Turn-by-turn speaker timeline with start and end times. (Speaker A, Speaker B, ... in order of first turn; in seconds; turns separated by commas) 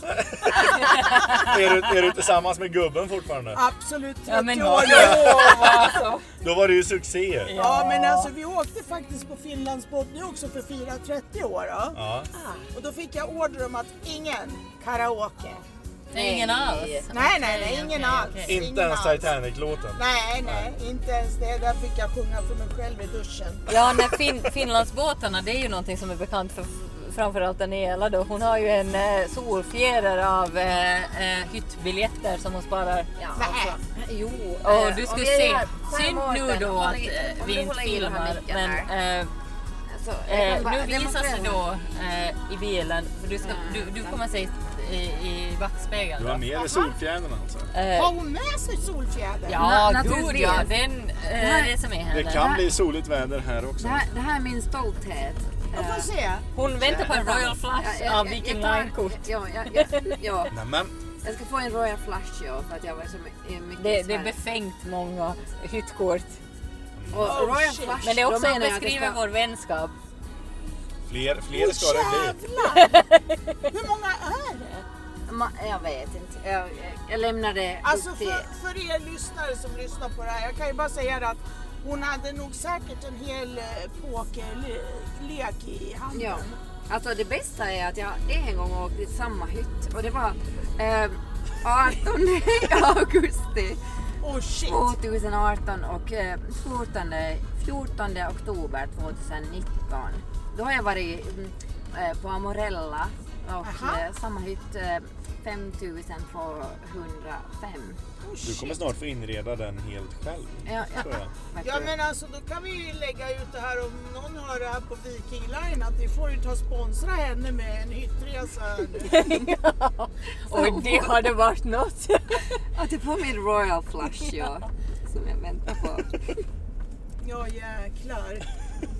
Speaker A: 0.2-3.6, Speaker B: 0.8-1.5, Speaker C: 3.5-5.6, Speaker B: 4.3-6.2, Speaker A: 4.8-7.5, Speaker B: 7.4-8.3, Speaker C: 7.5-15.6, Speaker A: 11.9-12.3, Speaker B: 16.1-18.6, Speaker D: 16.1-17.1, Speaker C: 17.1-19.4, Speaker A: 18.4-20.7, Speaker C: 19.9-23.8, Speaker B: 23.7-33.1, Speaker D: 33.1-38.9, Speaker C: 33.3-33.8, Speaker B: 34.6-39.3, Speaker D: 39.9-41.6, Speaker B: 40.2-46.5, Speaker D: 43.4-44.2, Speaker A: 46.2-47.7, Speaker C: 46.5-46.9, Speaker B: 47.7-48.1, Speaker C: 47.9-49.7, Speaker B: 49.5-52.4, Speaker D: 49.6-50.7, Speaker D: 51.3-51.7, Speaker A: 52.1-54.0, Speaker D: 52.3-52.7, Speaker D: 53.8-56.1, Speaker C: 55.7-56.5, Speaker B: 56.5-60.2, Speaker D: 56.8-60.5, Speaker A: 60.5-60.9, Speaker D: 61.2-64.3, Speaker B: 63.8-66.4, Speaker A: 67.0-67.4, Speaker D: 67.1-69.2, Speaker C: 67.2-68.0, Speaker B: 68.0-69.9, Speaker A: 71.1-72.4, Speaker C: 71.5-73.0, Speaker B: 72.7-73.5, Speaker C: 73.7-74.8, Speaker D: 75.3-78.5, Speaker C: 77.8-86.6, Speaker D: 86.1-93.8, Speaker C: 94.2-94.9, Speaker D: 94.6-108.0, Speaker C: 103.6-104.0, Speaker C: 108.2-108.9, Speaker A: 108.4-111.3, Speaker D: 110.7-111.9, Speaker C: 111.6-119.2, Speaker B: 119.0-122.5, Speaker D: 120.5-121.3, Speaker D: 122.7-126.4, Speaker C: 127.2-128.4